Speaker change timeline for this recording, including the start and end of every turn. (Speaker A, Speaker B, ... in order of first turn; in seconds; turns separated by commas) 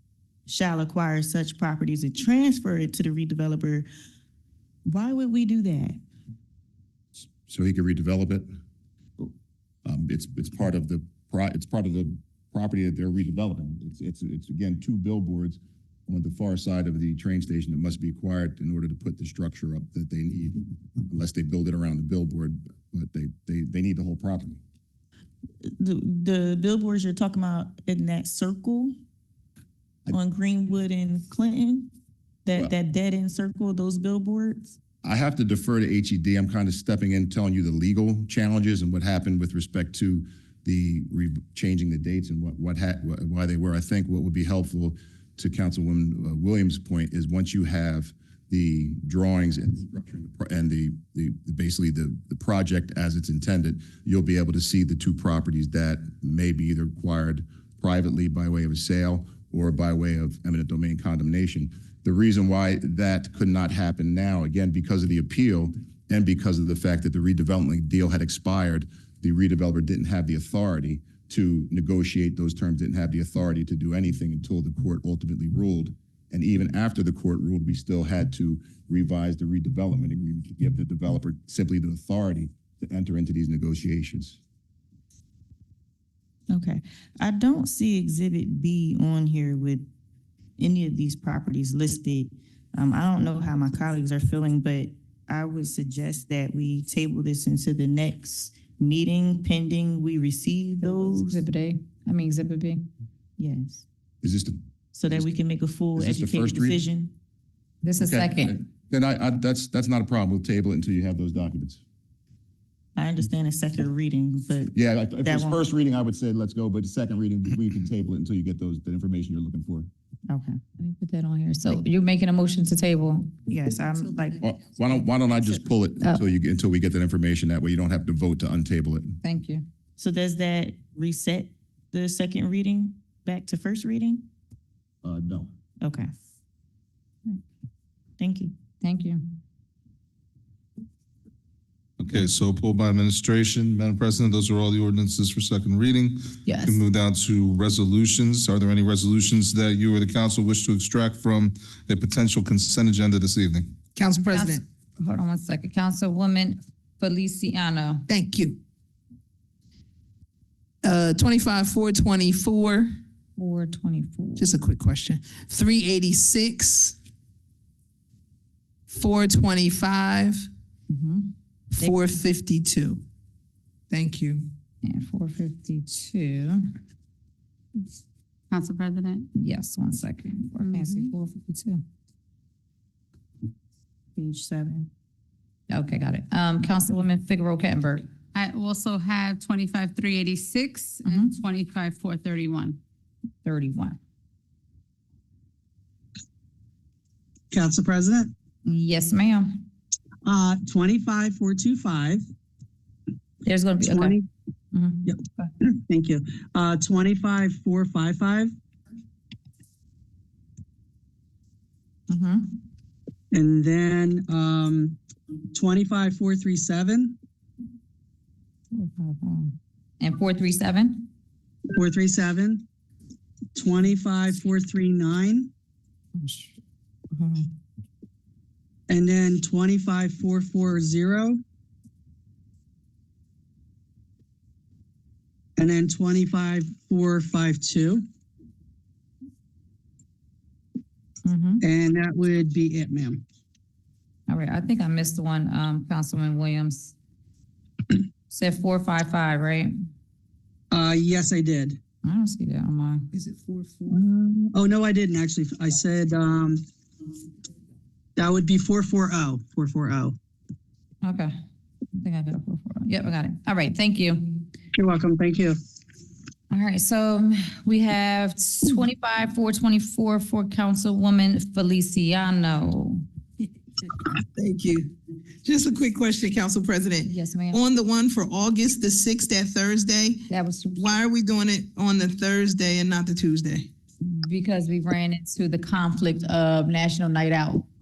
Speaker A: 0.5-3.9, Speaker A: 4.9-6.0, Speaker B: 7.3-8.5, Speaker B: 9.8-24.6, Speaker A: 25.6-28.9, Speaker A: 30.1-31.9, Speaker A: 32.5-34.8, Speaker B: 35.0-84.4, Speaker A: 86.5-89.9, Speaker A: 90.6-101.4, Speaker C: 100.9-102.9, Speaker A: 103.4-103.9, Speaker B: 104.2-104.6, Speaker A: 104.9-107.1, Speaker B: 106.0-106.8, Speaker C: 107.8-108.6, Speaker B: 108.0-111.8, Speaker A: 113.0-115.6, Speaker B: 114.7-119.9, Speaker A: 120.3-120.6, Speaker C: 120.8-123.3, Speaker A: 123.5-124.4, Speaker B: 124.4-129.2, Speaker C: 129.2-129.7, Speaker A: 130.0-134.3, Speaker B: 135.0-135.5, Speaker A: 135.8-136.1, Speaker A: 138.2-138.5, Speaker C: 138.8-139.2, Speaker D: 142.0-153.8, Speaker E: 154.0-154.6, Speaker C: 154.3-158.1, Speaker E: 158.1-158.6, Speaker E: 160.8-162.9, Speaker C: 163.4-164.5, Speaker E: 164.4-166.9, Speaker E: 168.9-170.5, Speaker C: 170.9-171.3, Speaker E: 171.8-173.0, Speaker E: 173.9-174.5, Speaker C: 174.8-176.6, Speaker F: 178.5-179.3, Speaker C: 179.3-181.8, Speaker A: 184.2-184.9, Speaker C: 185.7-188.1, Speaker F: 188.3-192.8, Speaker C: 191.1-191.4, Speaker C: 193.4-194.0, Speaker G: 197.5-198.3, Speaker C: 198.7-199.6, Speaker G: 200.2-202.2, Speaker C: 203.4-204.2, Speaker G: 203.8-204.2, Speaker C: 204.7-205.2, Speaker G: 205.1-208.5, Speaker C: 212.1-212.5, Speaker G: 213.3-215.0, Speaker G: 215.5-217.2, Speaker C: 218.7-221.1, Speaker G: 221.8-222.6, Speaker G: 223.6-225.5, Speaker C: 226.2-226.5, Speaker C: 227.1-227.5, Speaker G: 228.9-231.4, Speaker G: 235.6-238.0, Speaker C: 241.2-241.6, Speaker G: 241.6-243.2, Speaker C: 244.3-246.9, Speaker C: 248.3-249.7, Speaker G: 250.7-251.8, Speaker C: 252.0-253.1, Speaker E: 253.2-253.9, Speaker G: 253.9-256.6, Speaker G: 258.2-260.2, Speaker C: 261.0-261.3, Speaker C: 262.0-264.4, Speaker G: 264.7-265.6, Speaker C: 266.5-273.1, Speaker E: 274.1-283.7, Speaker C: 277.1-277.6, Speaker C: 280.3-281.0, Speaker C: 284.0-287.7